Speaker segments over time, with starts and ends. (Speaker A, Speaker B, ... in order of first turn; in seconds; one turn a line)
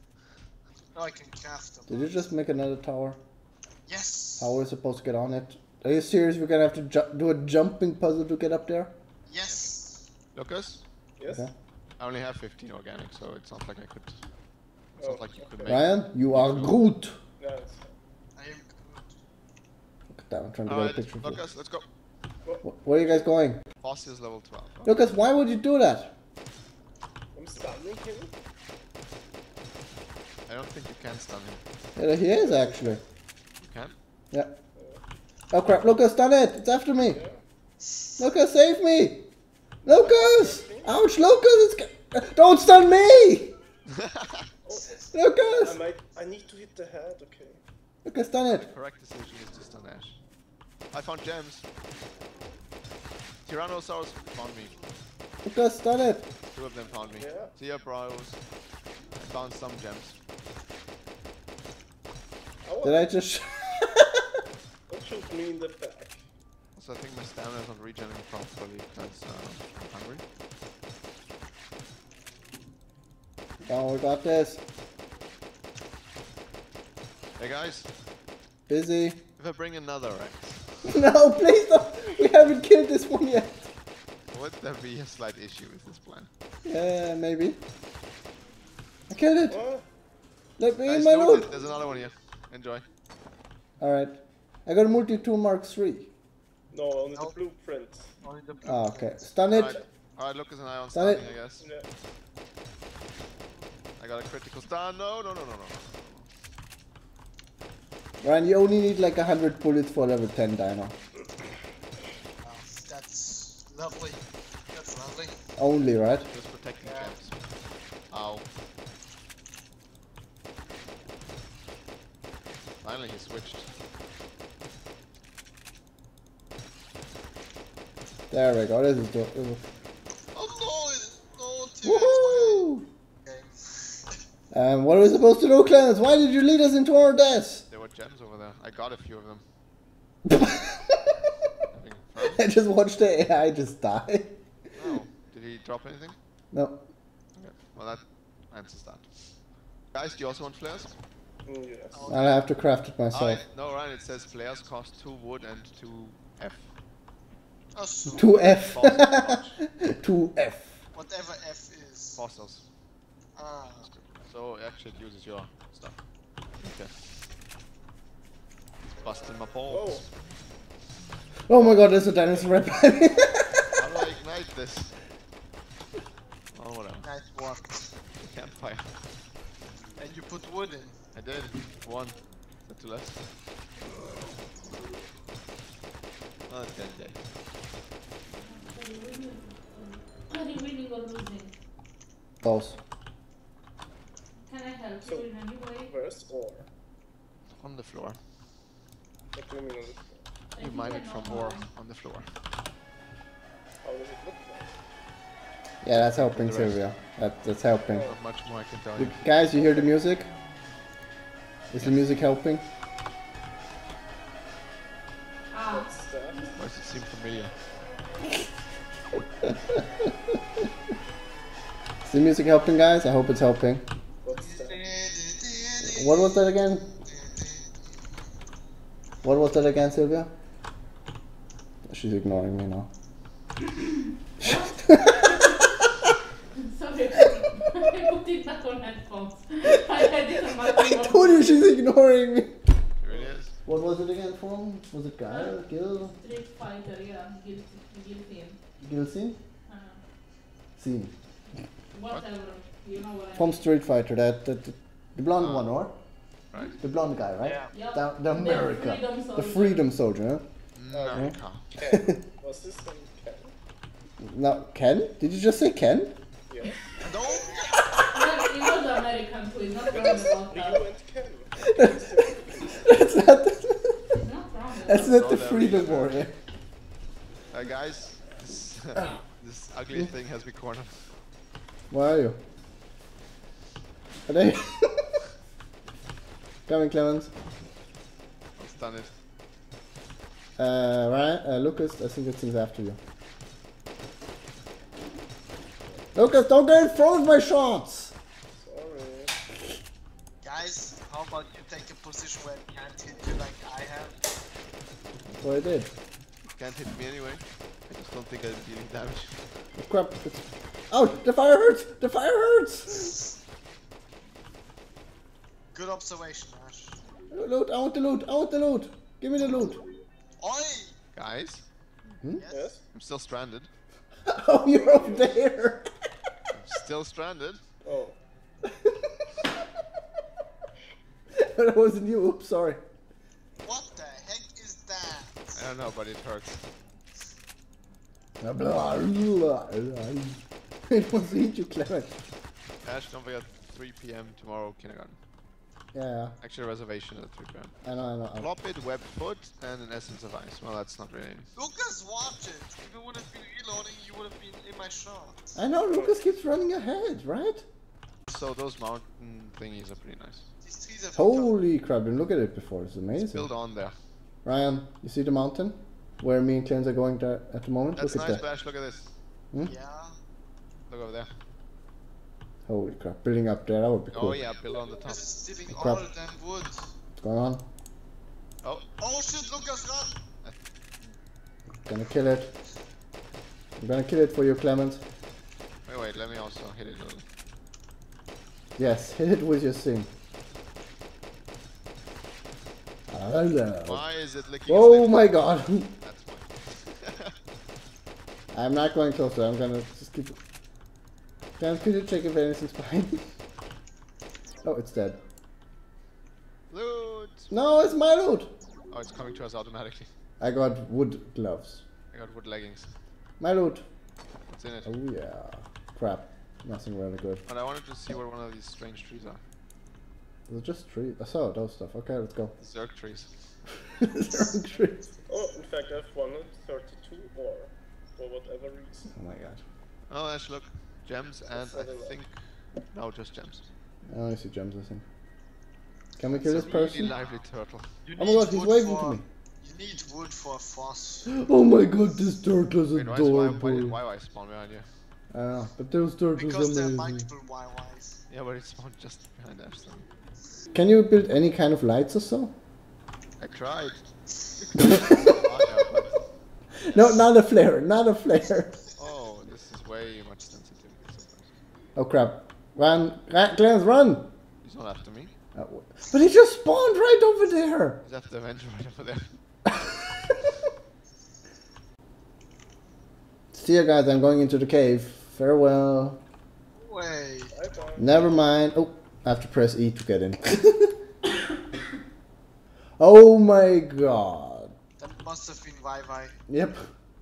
Speaker A: 0.7-2.2
Speaker B: 1.9-3.2
Speaker A: 3.9-4.5
Speaker B: 4.4-8.9
Speaker A: 9.2-10.1
Speaker C: 10.3-10.8
Speaker D: 11.2-11.5
Speaker C: 12.0-14.2
Speaker D: 15.0-15.7
Speaker C: 15.0-16.8
Speaker B: 15.7-17.2
Speaker D: 17.4-17.9
Speaker A: 18.4-19.1
Speaker B: 20.1-21.4
Speaker C: 20.6-21.9
Speaker D: 22.4-23.2
Speaker B: 22.6-23.6
Speaker C: 23.8-25.0
Speaker B: 24.8-26.1
Speaker D: 27.3-28.3
Speaker C: 30.5-31.6
Speaker B: 31.9-33.0
Speaker D: 32.3-33.0
Speaker C: 33.6-33.9
Speaker D: 34.7-35.0
Speaker B: 35.5-37.2
Speaker D: 37.1-37.4
Speaker B: 38.2-39.2
Speaker D: 39.8-41.0
Speaker B: 39.8-43.5
Speaker C: 43.9-44.5
Speaker D: 44.6-45.0
Speaker B: 45.1-45.8
Speaker D: 45.5-47.6
Speaker B: 48.0-48.7
Speaker C: 48.5-50.2
Speaker C: 50.9-51.6
Speaker C: 53.4-54.7
Speaker B: 55.4-56.3
Speaker C: 56.5-58.4
Speaker D: 57.1-57.5
Speaker C: 59.1-60.2
Speaker D: 62.6-63.1
Speaker B: 62.8-64.2
Speaker D: 64.9-66.2
Speaker C: 66.8-70.2
Speaker B: 73.6-74.6
Speaker C: 77.4-77.9
Speaker B: 78.7-79.2
Speaker C: 79.4-80.8
Speaker B: 80.8-83.7
Speaker C: 84.3-86.3
Speaker B: 86.6-87.6
Speaker B: 89.1-89.6
Speaker D: 89.5-89.8
Speaker B: 90.6-91.6
Speaker C: 90.8-92.8
Speaker B: 93.8-96.1
Speaker D: 96.7-98.1
Speaker A: 98.2-99.3
Speaker B: 98.6-99.8
Speaker C: 99.5-101.7
Speaker B: 100.9-101.2
Speaker D: 101.6-101.9
Speaker C: 104.0-106.3
Speaker B: 108.2-110.9
Speaker A: 112.4-115.3
Speaker B: 115.6-116.3
Speaker C: 116.2-117.3
Speaker A: 116.8-117.2
Speaker C: 118.1-118.5
Speaker C: 122.8-123.7
Speaker B: 128.3-129.6
Speaker A: 130.3-132.6
Speaker B: 131.8-132.8
Speaker A: 133.2-134.1
Speaker B: 134.5-137.6
Speaker C: 137.7-139.4
Speaker B: 140.3-141.1
Speaker C: 141.7-142.4
Speaker B: 142.2-144.3
Speaker C: 144.7-146.2
Speaker B: 146.5-146.8
Speaker C: 147.3-149.3
Speaker C: 149.9-150.9
Speaker D: 151.4-152.1
Speaker A: 151.9-152.4
Speaker B: 152.1-153.4
Speaker C: 153.1-156.7
Speaker A: 157.7-158.3
Speaker C: 158.0-159.6
Speaker B: 158.1-160.8
Speaker A: 160.9-162.2
Speaker C: 162.2-162.7
Speaker A: 163.3-163.9
Speaker C: 163.8-166.0
Speaker C: 166.6-167.3
Speaker C: 168.9-170.1
Speaker D: 169.7-170.0
Speaker B: 171.5-173.8
Speaker C: 173.8-174.9
Speaker C: 176.5-177.1
Speaker A: 177.0-177.9
Speaker C: 178.2-178.9
Speaker A: 180.0-181.0
Speaker C: 181.1-183.3
Speaker C: 186.5-187.2
Speaker E: 188.4-191.5
Speaker B: 192.4-192.8
Speaker E: 194.4-195.9
Speaker D: 195.0-196.7
Speaker C: 197.6-198.2
Speaker D: 199.3-200.2
Speaker E: 200.5-201.7
Speaker C: 200.6-202.3
Speaker D: 203.8-204.7
Speaker B: 205.8-208.1
Speaker C: 205.9-206.8
Speaker D: 207.9-208.2
Speaker C: 208.0-209.4
Speaker B: 209.0-210.3
Speaker D: 209.5-209.9
Speaker B: 211.7-212.6
Speaker C: 211.8-212.1
Speaker E: 215.5-216.4
Speaker D: 215.6-216.6
Speaker C: 216.6-217.5
Speaker B: 219.7-220.3
Speaker B: 222.0-223.8
Speaker D: 224.2-224.8
Speaker A: 224.3-226.4
Speaker B: 225.8-226.9
Speaker A: 227.0-227.8
Speaker B: 229.2-230.3
Speaker B: 231.8-232.9
Speaker E: 234.4-235.8
Speaker B: 234.4-235.3
Speaker E: 236.5-241.6
Speaker B: 240.9-242.6
Speaker C: 243.0-243.6
Speaker B: 243.6-246.2
Speaker E: 245.3-248.6
Speaker B: 248.8-249.4
Speaker E: 249.7-250.0
Speaker B: 250.8-251.1
Speaker E: 251.9-253.6
Speaker B: 253.3-255.9
Speaker C: 255.4-255.7
Speaker B: 256.8-260.4
Speaker A: 257.4-257.7
Speaker E: 257.7-259.8
Speaker C: 260.8-261.7
Speaker D: 260.9-263.5
Speaker B: 261.1-261.4
Speaker B: 261.9-262.1
Speaker B: 264.2-266.1
Speaker D: 266.5-266.9
Speaker A: 267.0-267.8
Speaker E: 268.1-270.8
Speaker D: 269.9-273.0
Speaker B: 271.6-274.2
Speaker E: 274.2-275.1
Speaker B: 274.8-276.3
Speaker C: 275.0-276.2
Speaker C: 277.5-281.1
Speaker B: 281.9-282.4
Speaker B: 284.3-285.1
Speaker B: 286.7-287.3
Speaker C: 288.6-289.1
Speaker B: 290.6-293.0
Speaker B: 296.1-298.1
Speaker D: 298.5-299.3
Speaker A: 300.4-304.1
Speaker B: 305.3-305.9
Speaker C: 306.5-309.4
Speaker B: 309.8-313.1
Speaker A: 315.7-317.0
Speaker B: 317.3-319.8
Speaker A: 320.4-320.9
Speaker C: 321.1-321.6
Speaker A: 322.4-322.7
Speaker D: 322.5-322.8
Speaker C: 322.9-323.7
Speaker B: 324.3-325.9
Speaker D: 324.6-325.4
Speaker C: 326.5-327.6
Speaker D: 327.8-328.2
Speaker B: 331.3-332.8
Speaker A: 333.6-335.6
Speaker C: 335.5-336.6
Speaker B: 338.4-342.1
Speaker C: 342.8-345.2
Speaker B: 345.9-346.4
Speaker C: 346.4-347.7
Speaker B: 347.8-348.5
Speaker C: 348.4-351.5
Speaker A: 351.6-355.4
Speaker B: 355.5-357.6
Speaker D: 355.9-356.2
Speaker C: 358.3-360.4
Speaker A: 360.6-361.5
Speaker B: 361.1-363.5
Speaker C: 363.1-363.9
Speaker B: 364.4-368.4
Speaker C: 367.9-369.1
Speaker A: 369.6-370.1
Speaker C: 370.9-371.3
Speaker B: 372.7-374.4
Speaker C: 374.1-375.3
Speaker A: 375.0-376.8
Speaker B: 375.7-376.1
Speaker B: 377.2-377.6
Speaker A: 379.0-380.1
Speaker C: 380.4-381.1
Speaker B: 381.9-382.5
Speaker B: 383.8-385.0
Speaker C: 385.9-387.2
Speaker B: 388.8-390.1
Speaker B: 393.1-394.0
Speaker C: 393.8-395.4
Speaker B: 394.7-395.9
Speaker C: 396.0-397.3
Speaker B: 398.5-400.4
Speaker B: 401.6-403.2
Speaker B: 404.6-405.2
Speaker C: 406.7-407.5
Speaker B: 407.5-408.5
Speaker C: 408.9-410.1
Speaker B: 410.4-411.8
Speaker C: 412.1-412.9
Speaker B: 413.4-413.8
Speaker C: 414.5-414.9
Speaker B: 414.8-417.4
Speaker C: 417.4-419.4
Speaker B: 420.5-422.5
Speaker C: 422.6-423.5
Speaker B: 423.9-425.0
Speaker D: 425.3-429.1
Speaker B: 429.1-429.6
Speaker C: 430.1-432.3
Speaker D: 431.4-432.2
Speaker C: 432.9-433.7
Speaker B: 434.1-435.0
Speaker B: 436.2-437.1
Speaker C: 436.4-437.9
Speaker A: 438.1-441.3
Speaker B: 438.2-439.2
Speaker B: 441.3-444.0
Speaker C: 442.9-444.9
Speaker B: 445.3-447.3
Speaker A: 446.4-448.2
Speaker C: 448.3-450.1
Speaker B: 450.7-452.5
Speaker C: 453.4-454.0
Speaker C: 454.7-456.2
Speaker B: 455.0-455.3
Speaker B: 456.8-458.7
Speaker C: 458.9-461.5
Speaker B: 461.9-464.3
Speaker C: 464.6-465.3
Speaker B: 465.5-468.0
Speaker C: 468.0-469.3
Speaker B: 469.7-470.4
Speaker B: 473.5-476.2
Speaker A: 476.8-477.6
Speaker D: 477.5-478.2
Speaker B: 478.0-480.9
Speaker B: 483.0-484.7
Speaker A: 485.0-486.4
Speaker B: 486.5-486.9